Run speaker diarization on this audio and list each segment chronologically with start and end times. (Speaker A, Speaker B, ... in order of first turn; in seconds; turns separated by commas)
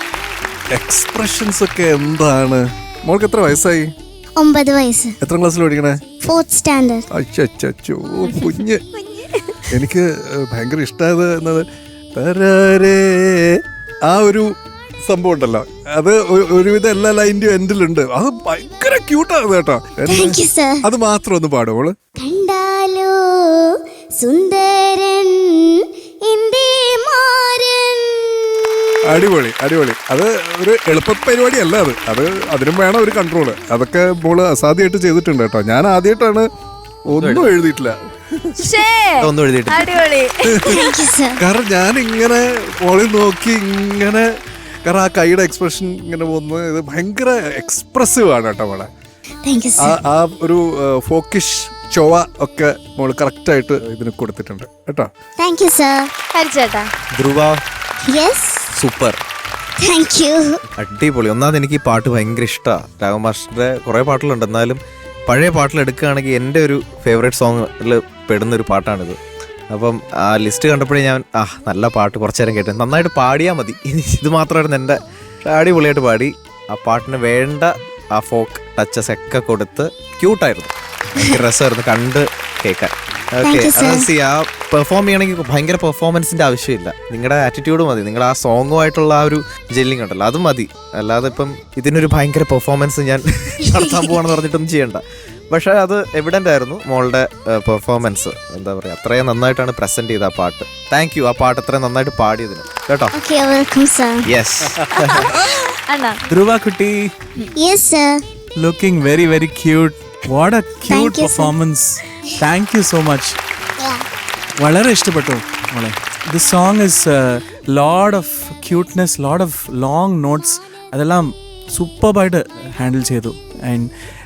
Speaker A: 0.7-3.9, Speaker B: 4.4-5.2, Speaker A: 5.2-6.0, Speaker B: 6.2-7.0, Speaker A: 7.1-8.8, Speaker B: 9.0-9.3, Speaker A: 9.7-14.5, Speaker A: 15.1-22.0, Speaker B: 20.1-20.9, Speaker B: 22.2-29.2, Speaker A: 29.1-36.5, Speaker A: 37.1-38.0, Speaker C: 37.2-37.5, Speaker D: 38.6-40.9, Speaker C: 39.2-40.0, Speaker A: 40.5-44.3, Speaker B: 40.7-41.4, Speaker A: 44.9-48.9, Speaker B: 49.5-49.9, Speaker A: 49.8-55.1, Speaker B: 55.4-56.1, Speaker D: 56.3-56.9, Speaker C: 57.1-57.6, Speaker B: 58.1-58.7, Speaker C: 58.7-59.2, Speaker B: 59.8-60.6, Speaker C: 60.8-69.2, Speaker C: 69.7-103.2, Speaker B: 83.4-84.1, Speaker B: 103.2-104.2, Speaker C: 104.3-105.3, Speaker D: 105.0-106.2, Speaker E: 106.3-107.1, Speaker B: 107.6-108.2, Speaker E: 108.6-113.4, Speaker B: 110.9-111.5, Speaker E: 114.6-123.9